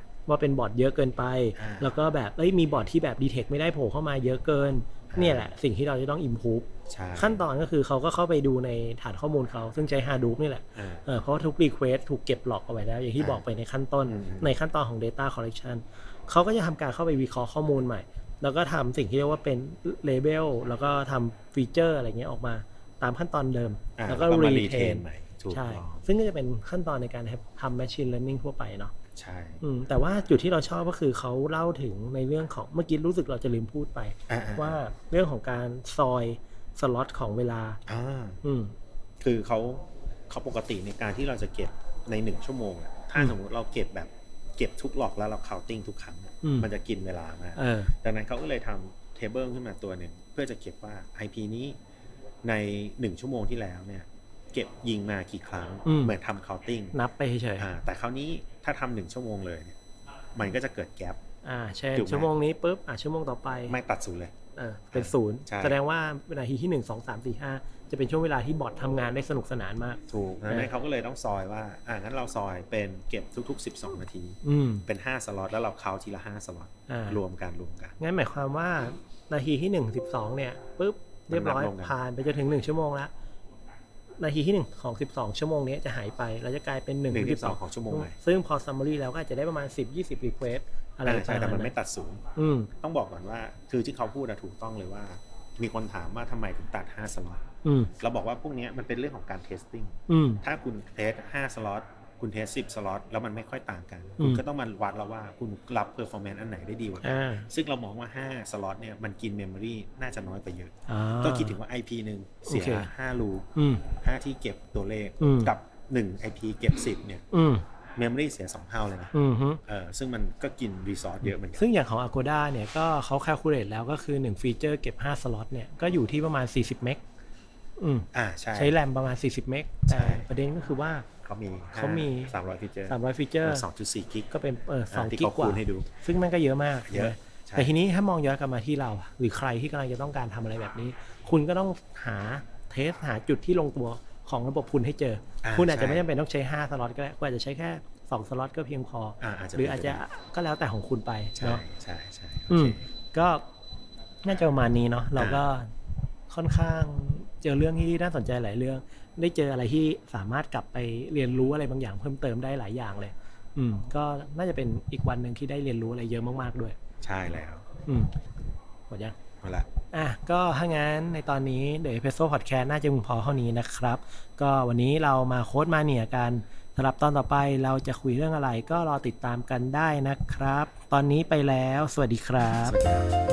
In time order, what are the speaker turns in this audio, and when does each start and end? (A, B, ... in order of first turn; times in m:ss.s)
0:00.3-0:28.9 A
0:01.6-0:01.9 B
0:05.1-0:05.5 B
0:06.9-0:07.4 B
0:10.8-0:11.0 B
0:13.2-0:13.4 B
0:14.1-0:14.5 B
0:24.0-0:26.0 B
0:29.2-0:29.6 B
0:29.6-0:37.8 A
0:34.3-0:34.8 B
0:37.9-0:38.4 B
0:38.4-0:38.7 A
0:39.2-0:51.8 B
0:46.4-0:46.7 A
0:47.6-0:47.9 A
0:52.4-0:57.0 B
0:55.8-0:56.2 A
0:56.9-0:57.7 A
0:57.6-0:59.8 B
1:00.4-1:01.2 B
1:01.4-1:03.8 A
1:02.0-1:02.3 B
1:03.7-1:04.3 B
1:04.6-1:10.7 A
1:04.9-1:05.8 B
1:10.1-1:18.0 B
1:14.4-1:14.8 A
1:16.9-1:17.2 A
1:18.0-1:23.1 A
1:21.3-1:22.0 B
1:24.2-1:31.7 A
1:27.1-1:28.2 B
1:31.1-1:32.2 B
1:32.4-1:32.7 A
1:32.8-1:37.4 B
1:37.6-1:37.9 A
1:38.0-1:57.2 B
1:40.1-1:40.4 A
1:47.0-1:47.5 A
1:50.9-1:51.6 A
1:52.5-1:52.9 A
1:53.6-1:53.8 A
1:55.2-1:55.5 A
1:57.3-1:57.6 A
1:58.0-1:59.1 B
1:59.1-1:59.6 A
1:59.6-2:01.6 B
2:01.6-2:07.0 A
2:07.8-2:11.1 A
2:08.1-2:08.8 B
2:09.9-2:10.3 B
2:11.2-2:14.3 B
2:11.8-2:12.3 A
2:12.9-2:13.6 A
2:14.3-2:31.6 A
2:14.9-2:15.9 B
2:16.9-2:17.7 B
2:25.4-2:26.0 B
2:29.2-2:30.0 B
2:31.4-2:32.8 B
2:32.5-2:33.4 A
2:34.2-2:35.7 A
2:35.2-2:35.5 B
2:36.3-2:46.8 A
2:47.0-2:47.7 B
2:47.9-2:48.2 A
2:48.9-2:49.2 A
2:49.4-2:49.7 B
2:49.9-3:02.8 A
3:02.6-3:03.1 B